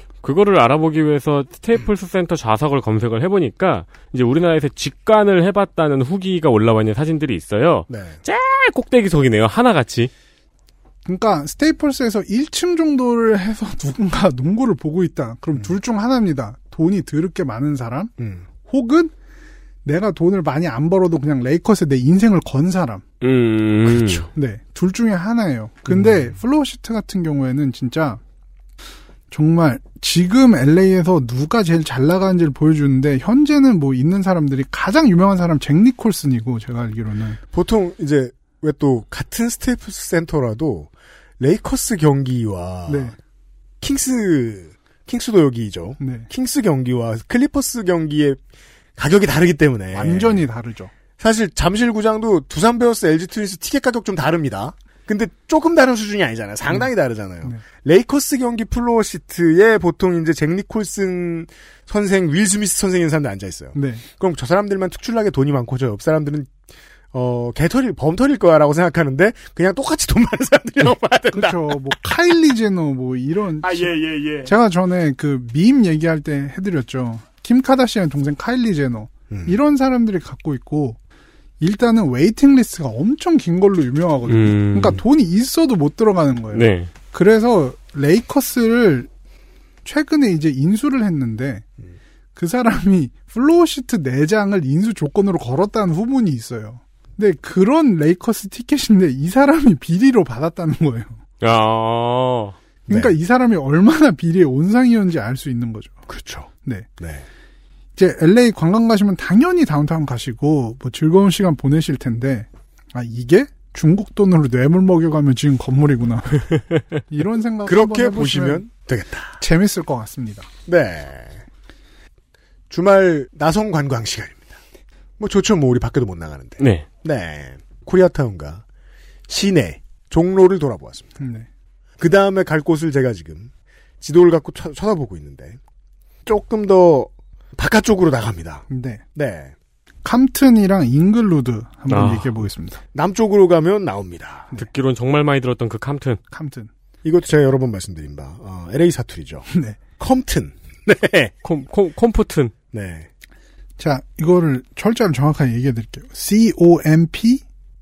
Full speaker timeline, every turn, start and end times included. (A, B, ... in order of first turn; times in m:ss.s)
0:00.2-0:10.1 A
0:07.9-0:08.2 B
0:11.0-0:18.1 C
0:18.2-0:18.4 B
0:18.6-0:19.1 C
0:19.8-0:23.0 C
0:23.2-0:24.3 A
0:23.8-0:24.3 B
0:24.3-0:28.2 C
0:25.9-0:26.3 B
0:29.3-0:37.4 C
0:37.5-0:43.1 B
0:42.9-0:43.1 C
0:43.8-0:48.4 B
0:46.0-0:46.3 C
0:49.0-0:50.4 B
0:49.9-0:50.9 C
0:51.2-1:06.5 B
1:03.7-1:04.0 C
1:07.1-1:11.8 B
1:11.3-1:21.0 C
1:13.6-1:14.5 B
1:19.3-1:19.6 B
1:21.6-1:29.1 C
1:24.3-1:25.0 A
1:26.5-1:26.9 A
1:29.8-1:31.6 C
1:32.4-1:41.2 C
1:41.4-1:42.5 A
1:42.9-1:43.1 B
1:42.9-1:45.9 C
1:46.1-1:47.2 B
1:48.0-1:58.7 C
1:57.6-1:59.4 B
1:59.4-2:00.5 C
2:00.6-2:01.4 B
2:02.7-2:04.6 B
2:05.2-2:08.6 B
2:06.6-2:06.9 A
2:09.3-2:11.2 B
2:11.2-2:11.5 C
2:12.0-2:15.6 B
2:16.2-2:19.5 B
2:18.7-2:19.0 C
2:20.0-2:22.8 C
2:21.9-2:22.4 A
2:22.9-2:24.5 B
2:24.6-2:26.2 A
2:26.3-2:26.7 C
2:27.0-2:29.5 B
2:29.5-2:29.8 C
2:30.0-2:31.3 B
2:31.4-2:32.5 A
2:32.7-2:33.1 B
2:33.8-2:37.4 C